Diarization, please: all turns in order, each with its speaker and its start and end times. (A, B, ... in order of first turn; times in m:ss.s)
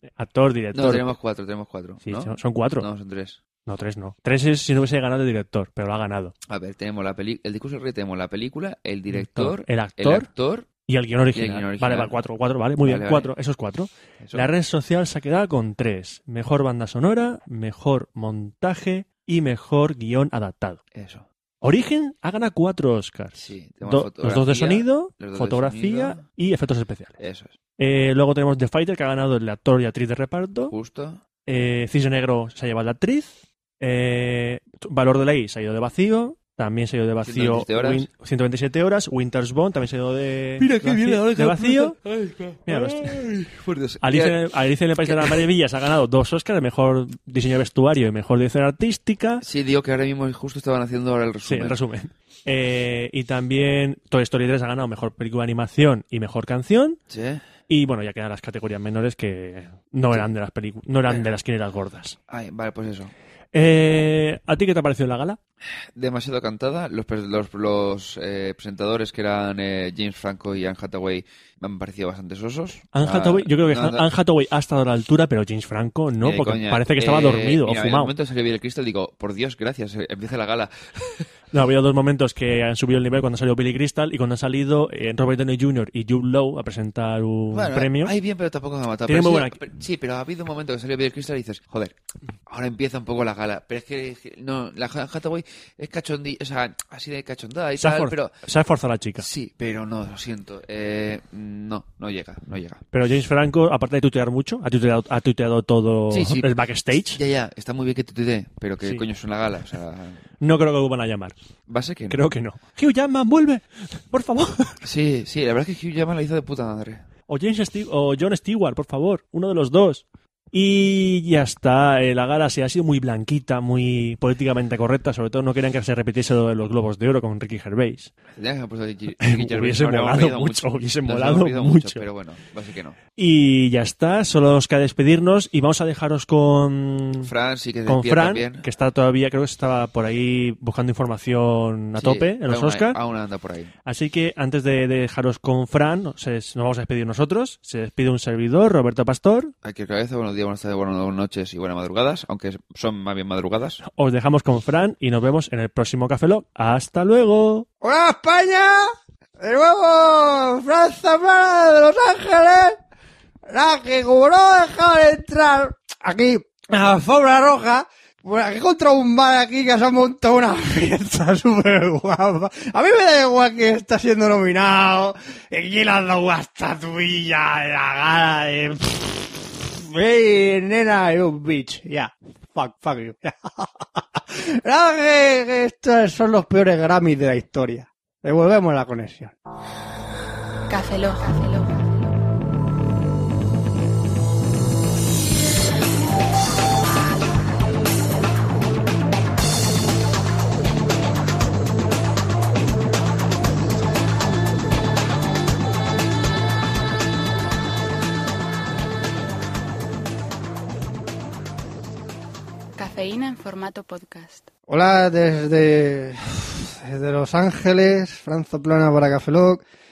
0:00.2-0:01.1 A
0:00.7-0:03.4 B
0:02.0-0:02.9 A
0:03.6-0:06.3 A
0:06.5-0:10.7 B
0:09.1-0:10.3 A
0:10.9-0:20.8 A
0:11.3-0:12.1 B
0:12.8-0:13.3 B
0:14.2-0:14.5 B
0:20.9-0:21.3 B
0:21.6-0:27.2 A
0:23.3-0:26.2 B
0:27.2-0:27.5 B
0:27.8-0:30.7 A
0:30.7-0:31.2 B
0:31.5-0:42.0 A
0:37.2-0:38.1 B
0:40.6-0:44.4 B
0:42.7-0:43.2 A
0:44.0-0:49.4 A
0:45.0-0:45.4 B
0:49.4-0:51.8 B
0:51.4-0:57.0 A
0:57.1-0:57.4 B
0:57.7-1:02.2 A
1:02.3-1:03.1 B
1:03.5-1:05.4 A
1:05.8-1:14.1 B
1:12.9-1:18.1 A
1:16.2-1:21.3 B
1:21.5-1:28.1 A
1:27.5-1:32.0 B
1:29.1-1:29.6 A
1:32.5-1:38.4 B
1:37.8-1:39.3 A
1:39.2-1:42.8 B
1:42.9-1:47.2 A
1:46.1-1:50.2 B
1:50.4-1:51.4 A
1:51.7-1:52.2 B
1:52.1-1:54.8 A
1:54.8-1:57.0 B
1:57.3-2:08.1 A
2:08.3-2:13.0 B
2:09.2-2:12.1 A
2:13.2-2:17.3 A
2:17.2-2:18.7 B
2:17.9-2:23.0 A
2:22.0-2:23.7 B
2:23.9-2:29.5 A
2:29.6-2:33.8 B
2:33.8-2:37.7 A
2:37.8-2:42.8 C
2:43.5-3:09.3 C
3:10.7-3:12.2 D
3:32.8-3:34.5 D
3:34.7-3:39.6 C